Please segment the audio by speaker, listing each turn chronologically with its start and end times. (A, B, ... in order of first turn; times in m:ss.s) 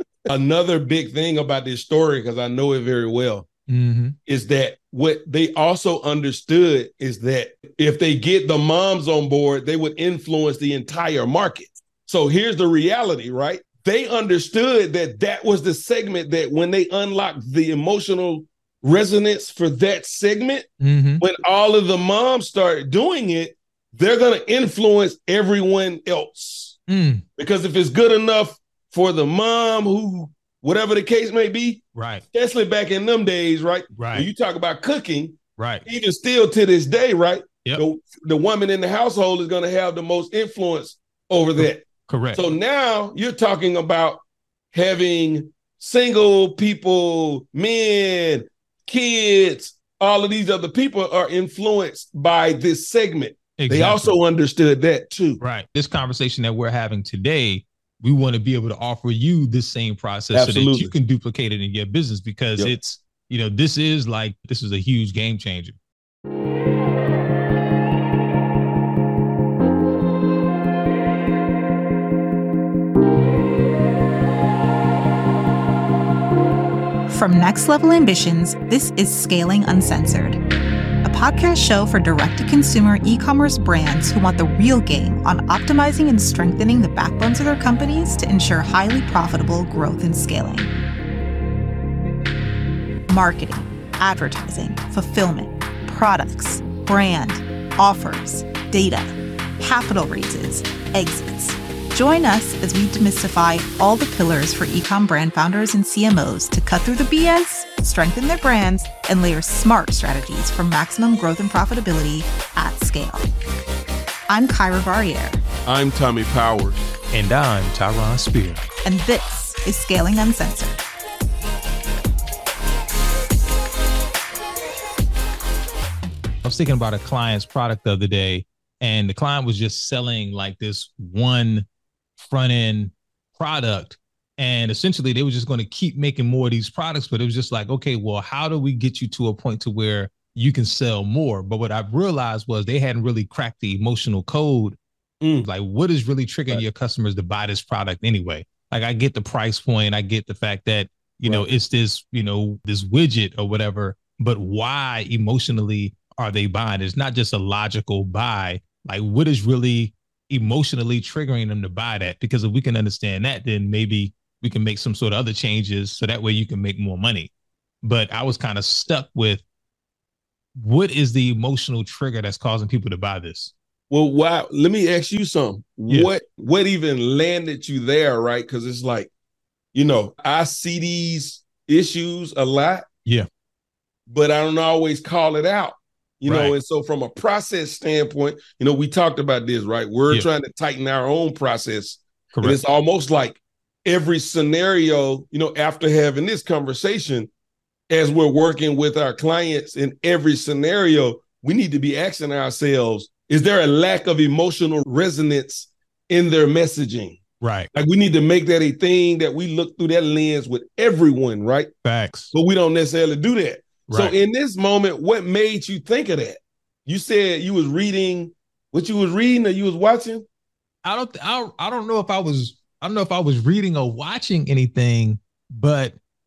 0:00.3-0:03.5 A
0:03.7-0:04.2 B
0:04.2-0:20.7 A
0:20.8-0:21.2 B
0:21.2-0:26.8 A
0:26.9-0:27.2 B
0:27.4-0:44.2 A
0:31.9-0:32.2 B
0:33.9-0:34.3 B
0:35.6-0:35.8 B
0:41.6-0:42.4 B
0:44.7-0:55.4 A
0:53.6-0:54.2 B
0:55.4-1:05.8 B
1:00.3-1:00.9 A
1:17.1-1:20.4 C
1:21.0-1:30.7 C
1:33.1-1:53.3 C
1:54.3-1:55.4 C
1:55.6-1:56.8 A
1:57.1-1:58.7 B
1:58.8-2:00.8 C
2:06.4-2:11.6 B
2:12.2-2:24.8 B
2:25.2-2:25.5 A
2:25.4-2:47.3 B
2:47.8-2:49.4 B
2:50.5-2:53.5 B
2:53.9-2:59.1 A
2:59.7-3:02.8 A
3:04.1-3:17.3 A
3:06.2-3:06.6 B
3:12.3-3:12.6 B
3:17.9-3:27.2 A
3:27.4-3:27.7 B
3:27.7-3:31.7 A
3:31.8-3:32.3 B
3:32.3-3:40.2 A
3:33.9-3:34.2 B
3:40.8-3:46.0 B